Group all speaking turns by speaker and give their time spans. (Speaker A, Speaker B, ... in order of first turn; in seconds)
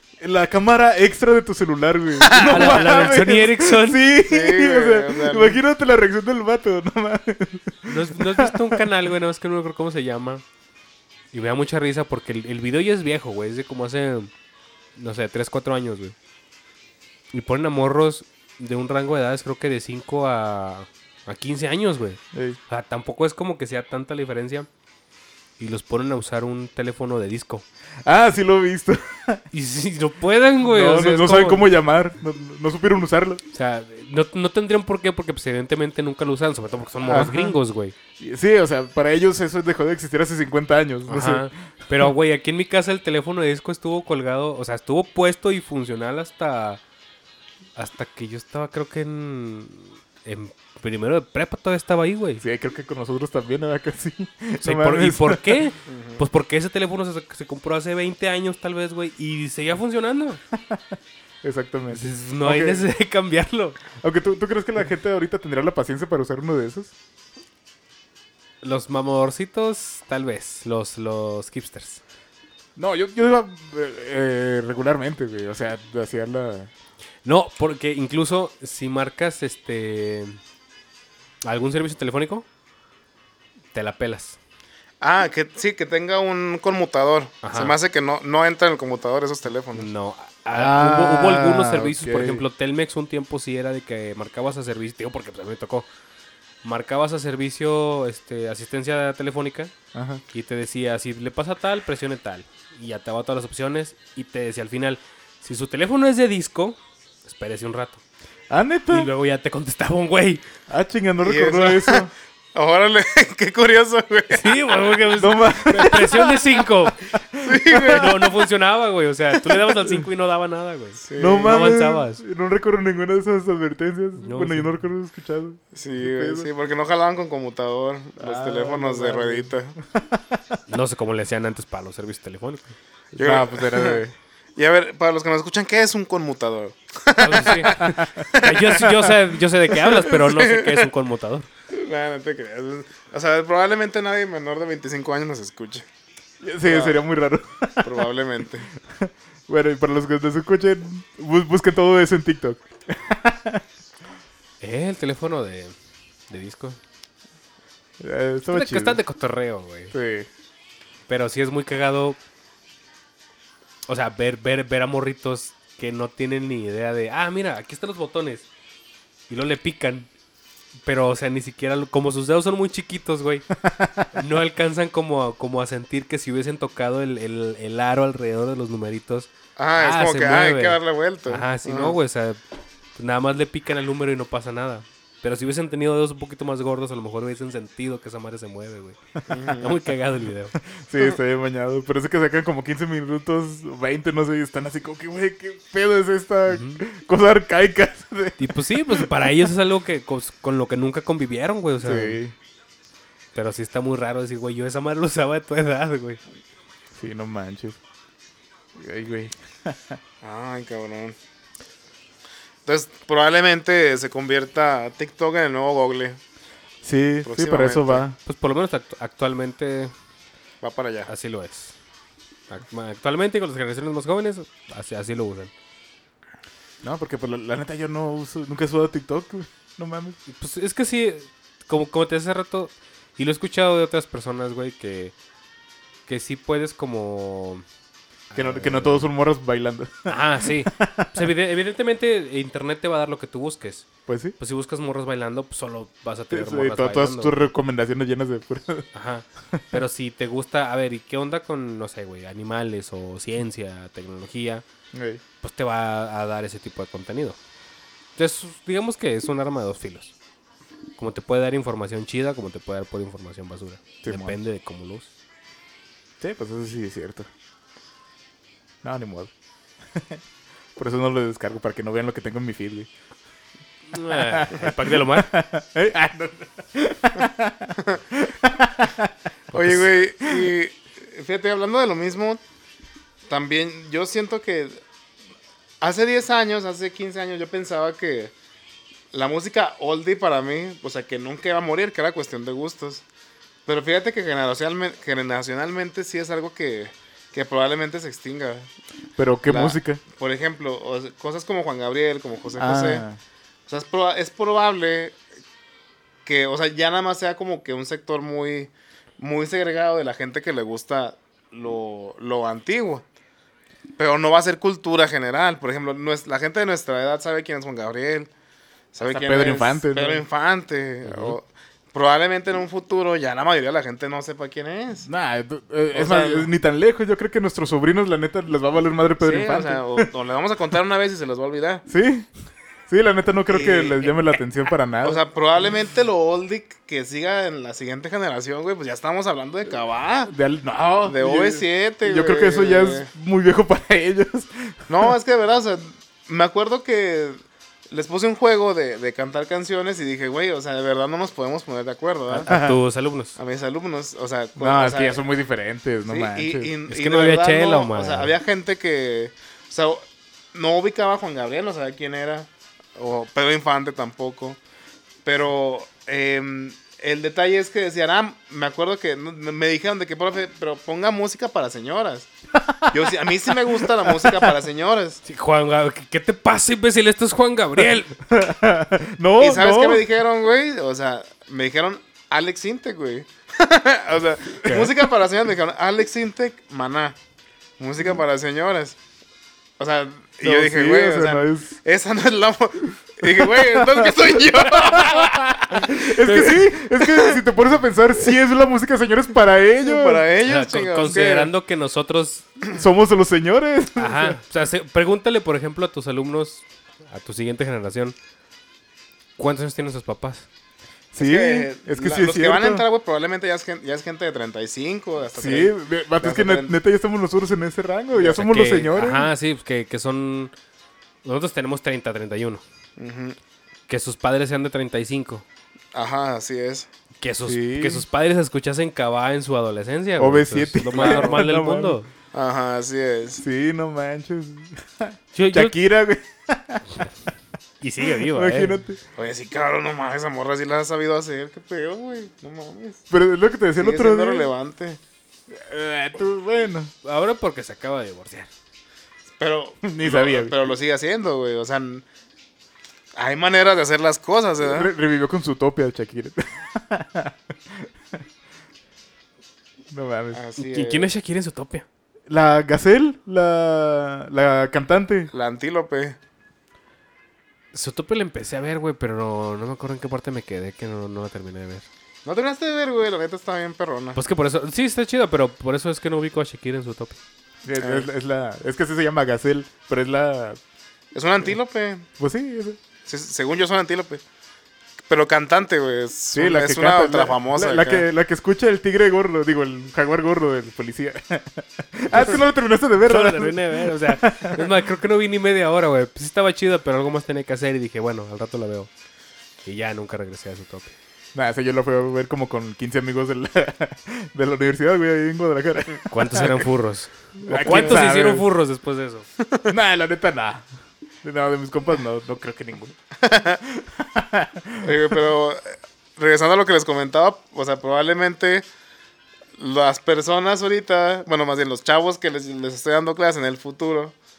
Speaker A: 0.2-8.8, 22.3-22.6, 28.1-29.4, 30.6-33.4, 37.0-37.5, 38.2-41.5, 52.4-55.6, 61.4-62.8, 64.0-66.9, 72.8-76.7, 90.5-92.4, 99.9-100.2, 108.5-109.1, 110.7-112.1, 115.2-116.4, 117.1-118.1, 119.5-120.0, 121.2-126.5, 128.2-130.6, 133.2-134.1, 137.6-138.3, 146.4-148.1, 148.9-153.6, 158.0-159.0, 159.9-160.3, 173.6-174.1, 190.7-199.1, 201.8-202.3, 206.9-207.8, 208.8-210.0, 216.8-218.2, 226.8-230.2, 238.3-241.3, 244.1-244.3, 246.3-248.9, 249.5-249.8, 254.9-255.2, 264.0-264.4, 266.2-267.3, 268.8-269.3, 270.8-272.9, 274.1-280.5, 299.2-300.0, 302.6-303.2, 319.1-320.2, 321.1-321.4, 325.1-330.1, 331.9-332.3, 332.9-335.2, 340.3-345.1, 352.5-352.8, 354.6-356.7, 372.6-374.5, 378.3-380.1, 390.4-391.7, 393.2-400.3, 402.7-404.4, 411.1-412.9, 415.4-419.3, 427.4-428.1, 430.2-432.0, 433.4-437.1, 438.0-439.0, 443.1-444.5, 445.5-446.9, 449.8-450.6, 454.6-457.9, 459.9-460.4, 462.3-465.3, 477.6-480.6, 482.2-482.8, 486.3-494.6, 501.4-506.7, 507.4-508.4, 509.7-510.7, 511.2-513.0, 513.6-515.2
Speaker B: 2.2-2.8, 4.2-5.6, 55.9-56.2, 85.0-89.9, 111.2-114.8, 117.4-118.3, 121.0-121.7, 125.7-129.7, 133.2-134.0, 134.6-138.8, 140.2-140.9, 141.7-145.9, 146.7-147.0, 147.8-148.7, 179.6-182.0, 189.3-189.8, 210.2-211.2, 212.7-216.2, 217.2-218.1, 220.6-221.1, 279.5-282.4, 283.3-284.8, 285.8-288.3, 289.1-293.0, 293.7-298.7, 299.5-303.1, 303.7-305.2, 306.3-313.0, 314.0-318.3, 318.9-325.1, 325.9-326.5, 329.2-331.9, 333.5-334.2, 335.0-340.3, 341.0-343.1, 344.9-352.5, 353.4-355.2, 356.1-364.6, 365.2-372.3, 372.9-375.2, 379.4-387.2, 387.8-389.0, 389.8-397.4, 399.8-401.5, 411.2-416.8, 423.0-423.4, 425.9-426.9, 430.9-431.4, 432.3-433.4, 439.2-443.0, 443.8-445.0, 449.4-452.1, 453.2-454.9, 460.3-461.1, 465.3-466.2, 472.2-474.2, 477.8-478.1, 481.1-482.1, 483.1-484.2, 485.1-488.1, 513.2-513.6, 514.8-518.7, 519.6-524.1
Speaker C: 2.4-4.0, 7.9-10.4, 11.3-14.3, 15.0-16.1, 17.3-24.7, 25.6-27.6, 29.5-31.7, 33.5-38.0, 41.1-46.8, 47.8-52.4, 54.6-60.4, 61.9-63.8, 68.6-72.0, 77.2-80.4, 81.4-82.5, 83.7-84.4, 87.4-87.8, 89.8-95.9, 96.6-99.7, 100.3-108.0, 108.9-110.4, 114.3-117.0, 117.8-122.2, 124.2-124.7, 130.7-132.7, 137.2-141.5, 154.6-155.7, 156.3-156.8, 158.5-159.9, 161.1-162.2, 163.9-168.5, 169.3-170.1, 170.9-173.5, 174.1-182.4, 183.0-190.6, 196.5-196.8, 198.4-202.2, 203.3-206.2, 218.3-219.9, 221.1-221.7, 222.5-225.5, 230.3-235.2, 236.1-237.7, 238.3-239.1, 240.1-247.4, 248.9-254.6, 255.4-257.4, 258.2-260.1, 261.0-265.1, 273.9-275.3, 352.3-353.4, 356.9-358.3, 375.3-378.1, 400.4-402.5, 404.0-408.1, 409.4-410.5, 418.2-420.5, 421.2-422.6, 423.9-425.4, 427.2-432.1, 435.3-435.7, 437.8-438.8, 447.0-448.5, 460.6-461.9, 467.7-471.9, 474.1-477.2, 492.1-492.4, 493.0-498.9, 499.6-500.9, 506.1-509.3